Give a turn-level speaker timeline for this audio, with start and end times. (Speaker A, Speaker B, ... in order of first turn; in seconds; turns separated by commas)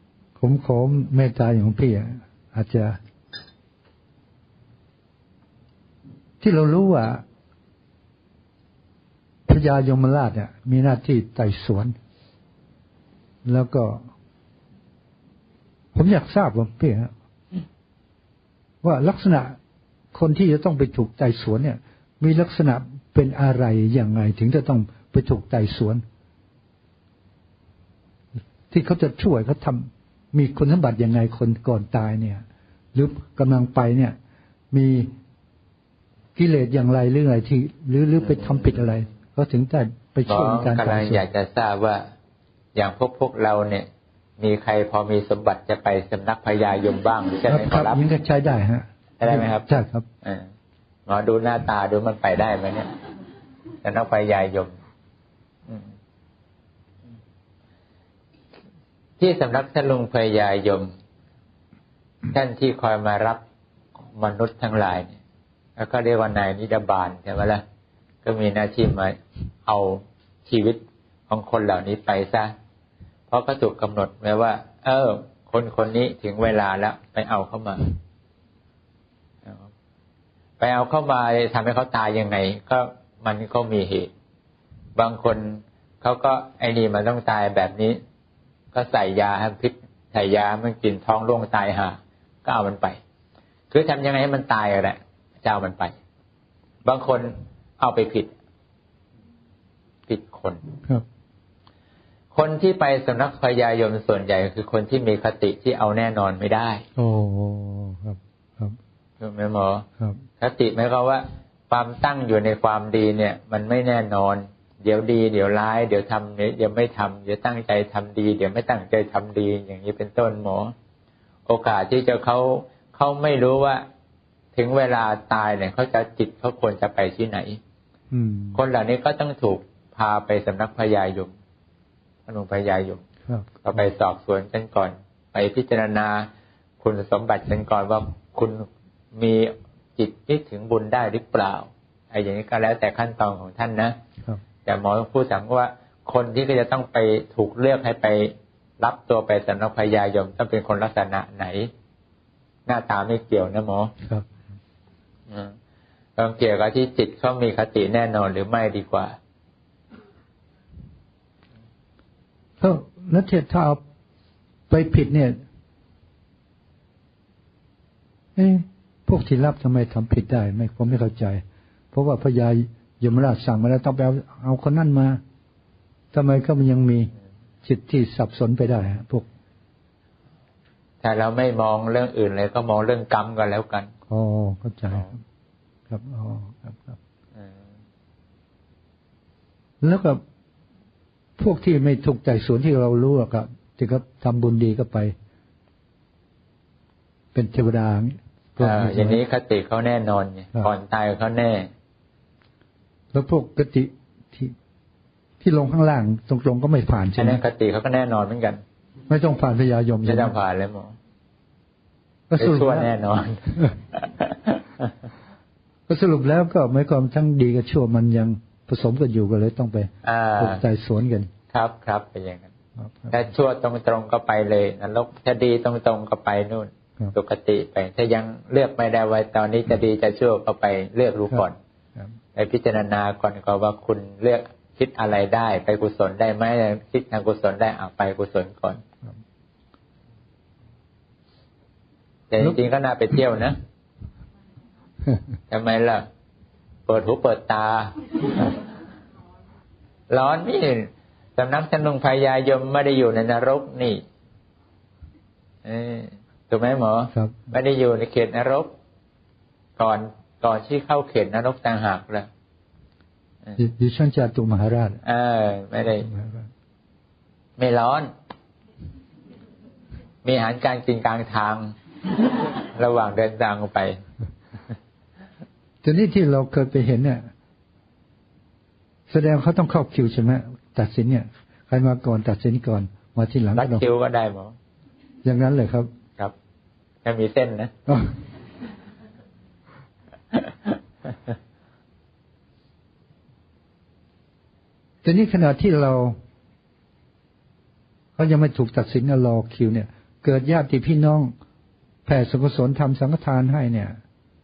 Speaker A: 0.4-3.0, Speaker A: 6.4-7.2, Speaker A: 9.4-11.9, Speaker A: 13.4-14.1, Speaker A: 15.9-17.1, Speaker A: 18.8-19.6, Speaker A: 20.1-26.0, Speaker A: 28.7-34.2, Speaker A: 34.7-35.1, Speaker A: 36.3-41.2, Speaker B: 38.2-38.8, Speaker B: 40.3-42.0, Speaker B: 42.7-43.9, Speaker B: 44.4-48.0, Speaker A: 47.5-50.0, Speaker B: 49.2-50.5, Speaker B: 51.1-52.9, Speaker B: 53.8-54.8, Speaker B: 59.2-60.9, Speaker B: 62.3-63.4, Speaker B: 64.1-65.2, Speaker B: 65.8-67.6, Speaker B: 68.2-72.5, Speaker B: 73.3-77.9, Speaker B: 80.6-84.1, Speaker B: 85.0-88.0, Speaker B: 88.7-93.0, Speaker B: 93.7-95.9, Speaker B: 96.8-98.3, Speaker B: 100.1-100.6, Speaker B: 102.3-106.8, Speaker A: 107.0-108.8, Speaker B: 109.2-109.9, Speaker B: 110.4-120.7, Speaker B: 121.5-123.8, Speaker B: 124.5-127.6, Speaker A: 128.1-128.6, Speaker B: 128.5-131.3, Speaker B: 132.3-133.0, Speaker A: 133.3-133.5, Speaker B: 133.6-136.3, Speaker B: 136.8-144.0, Speaker B: 144.7-151.7, Speaker B: 152.7-153.9, Speaker B: 155.3-155.5, Speaker B: 156.2-159.2, Speaker A: 162.6-163.8, Speaker A: 164.7-165.4, Speaker A: 168.3-175.2, Speaker A: 176.1-177.1, Speaker A: 177.6-179.3, Speaker B: 181.0-183.9, Speaker A: 184.1-185.2, Speaker A: 185.9-187.0, Speaker A: 189.8-190.2, Speaker A: 191.4-195.2, Speaker A: 197.3-199.2, Speaker B: 198.6-201.7, Speaker A: 203.1-204.5, Speaker A: 205.4-207.4, Speaker B: 207.2-208.6, Speaker A: 209.1-210.3, Speaker B: 210.1-211.0, Speaker A: 212.3-212.9, Speaker B: 212.4-214.9, Speaker A: 215.9-221.3, Speaker B: 220.0-220.6, Speaker B: 221.5-222.5, Speaker A: 222.8-223.2, Speaker B: 223.1-231.6, Speaker B: 232.3-238.8, Speaker B: 242.3-243.6, Speaker B: 245.5-246.1, Speaker B: 246.9-248.5, Speaker B: 250.1-254.0, Speaker B: 255.6-258.7, Speaker A: 257.1-257.5, Speaker B: 259.8-262.3, Speaker A: 263.6-265.0, Speaker B: 265.0-266.1, Speaker A: 266.0-266.5, Speaker B: 267.6-268.1, Speaker B: 270.2-271.7, Speaker B: 272.7-274.0, Speaker A: 275.8-277.3, Speaker A: 279.1-283.9, Speaker B: 283.6-284.6, Speaker A: 285.2-285.9, Speaker B: 287.0-287.7, Speaker A: 295.0-296.2, Speaker A: 298.2-301.3, Speaker A: 302.1-304.0